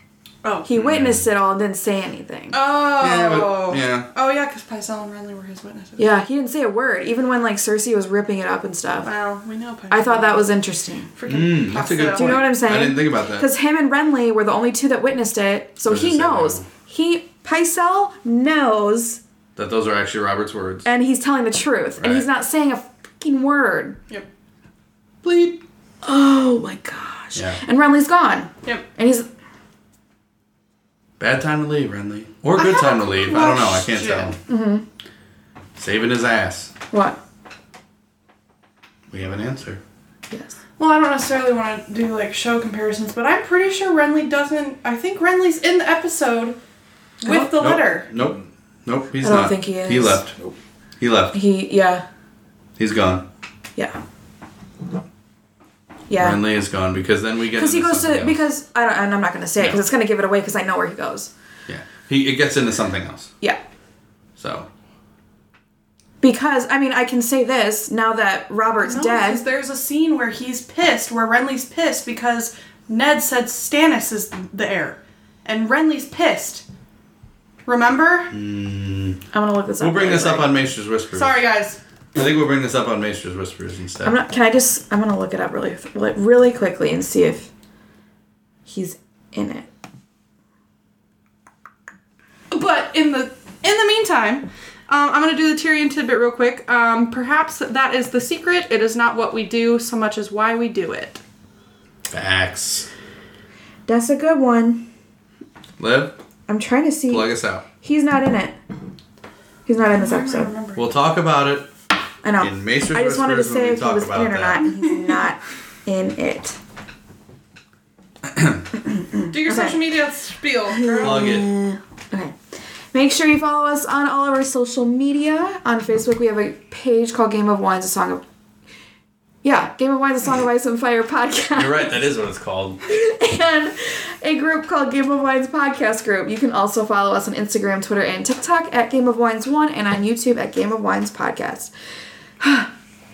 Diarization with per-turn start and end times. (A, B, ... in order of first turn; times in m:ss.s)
0:00.6-0:02.6 A
0:00.7-0:01.2 B
0:02.5-0:06.1 C
0:03.0-0:04.1 B
0:06.0-0:09.1 A
0:09.0-0:10.5 C
0:09.9-0:11.1 A
0:11.2-0:12.5 C
0:11.3-0:13.5 B
0:12.1-0:19.2 A
0:15.9-0:16.7 B
0:19.6-0:20.9 B
0:20.8-0:24.0 A
0:22.0-0:22.3 B
0:25.3-0:29.3 A
0:27.4-0:27.6 B
0:31.2-0:34.4 B
0:32.6-0:34.4 C
0:34.5-0:34.8 A
0:35.8-0:36.7 B
0:36.9-0:37.2 A
0:39.1-0:39.8 B
0:40.8-0:46.6 C
0:47.2-0:48.1 C
0:47.2-0:47.5 A
0:47.3-0:50.4 B
0:49.2-0:50.2 A
0:51.0-0:51.4 B
0:51.3-0:52.0 A
0:52.8-0:53.2 B
0:56.1-0:56.4 A
0:56.2-0:58.4 B
0:57.6-1:01.3 A
1:01.7-1:03.3 B
1:04.4-1:04.7 B
1:06.2-1:09.4 A
1:08.8-1:16.6 C
1:17.7-1:18.4 C
1:18.3-1:19.2 B
1:19.3-1:20.5 A
1:19.8-1:21.4 B
1:21.1-1:21.8 C
1:22.2-1:24.2 B
1:24.0-1:27.5 A
1:28.7-1:29.7 A
1:32.5-1:41.2 C
1:42.1-1:42.9 B
1:43.9-1:44.9 A
1:45.8-1:46.2 B
1:46.5-1:47.3 A
1:47.1-1:47.7 B
1:47.8-1:48.6 A
1:49.7-1:50.5 A
1:50.0-1:50.9 C
1:50.8-1:51.7 B
1:52.2-1:56.6 A
1:52.4-1:54.6 B
1:58.3-1:58.6 B
1:58.8-1:59.8 A
1:59.3-2:01.4 C
2:00.8-2:02.4 A
2:01.0-2:01.5 B
2:02.9-2:08.2 A
2:09.4-2:12.0 A
2:11.6-2:12.8 B
2:12.9-2:21.7 A
2:22.4-2:22.7 A